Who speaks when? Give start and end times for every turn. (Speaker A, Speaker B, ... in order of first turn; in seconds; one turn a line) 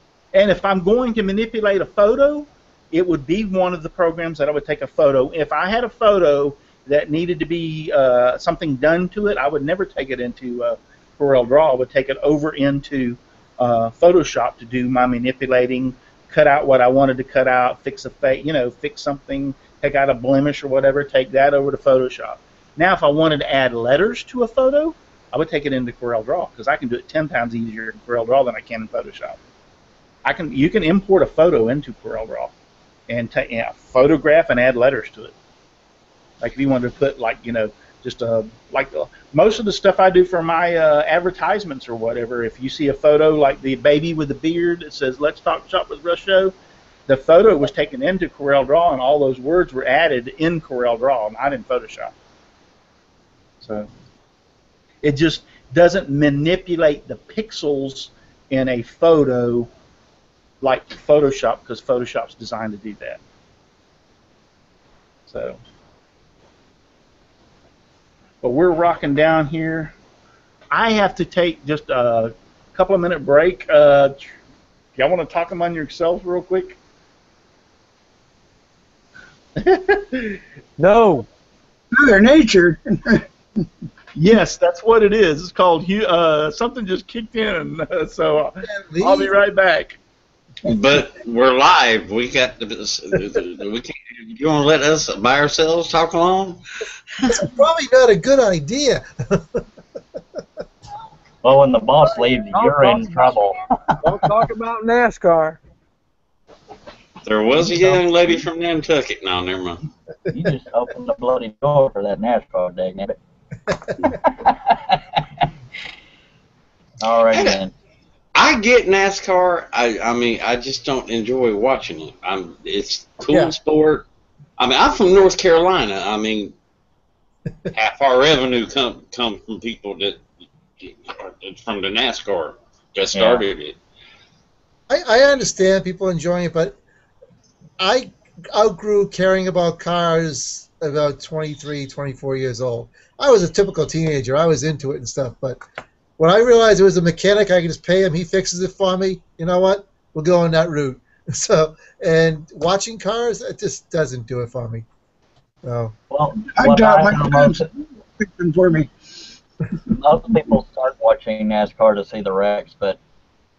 Speaker A: 0.3-29.4
Speaker A: 30.2-32.5
Speaker A: 33.1-35.3
Speaker A: 36.4-46.5
Speaker A: 47.1-52.1
Speaker A: 53.6-53.9
Speaker A: 55.0-59.7
Speaker A: 60.6-63.2
Speaker A: 65.3-65.6
Speaker A: 68.4-69.9
Speaker A: 70.7-74.3
Speaker A: 75.0-76.8
Speaker A: 79.6-80.4
Speaker B: 80.8-81.3
Speaker C: 81.9-83.2
Speaker A: 84.1-90.0
Speaker D: 88.6-89.3
Speaker E: 90.6-96.6
Speaker D: 97.3-99.6
Speaker F: 101.4-103.6
Speaker B: 102.5-103.1
Speaker A: 102.5-103.5
Speaker B: 104.0-105.6
Speaker E: 107.2-109.8
Speaker F: 110.3-113.2
Speaker F: 114.0-115.2
Speaker F: 117.0-117.7
Speaker E: 118.3-124.0
Speaker E: 124.6-126.5
Speaker E: 127.7-130.2
Speaker E: 130.8-133.8
Speaker F: 133.1-133.4
Speaker D: 134.9-136.8
Speaker D: 137.8-145.6
Speaker D: 146.2-154.8
Speaker D: 155.6-155.9
Speaker F: 156.1-157.7
Speaker C: 156.4-158.9
Speaker F: 159.9-163.0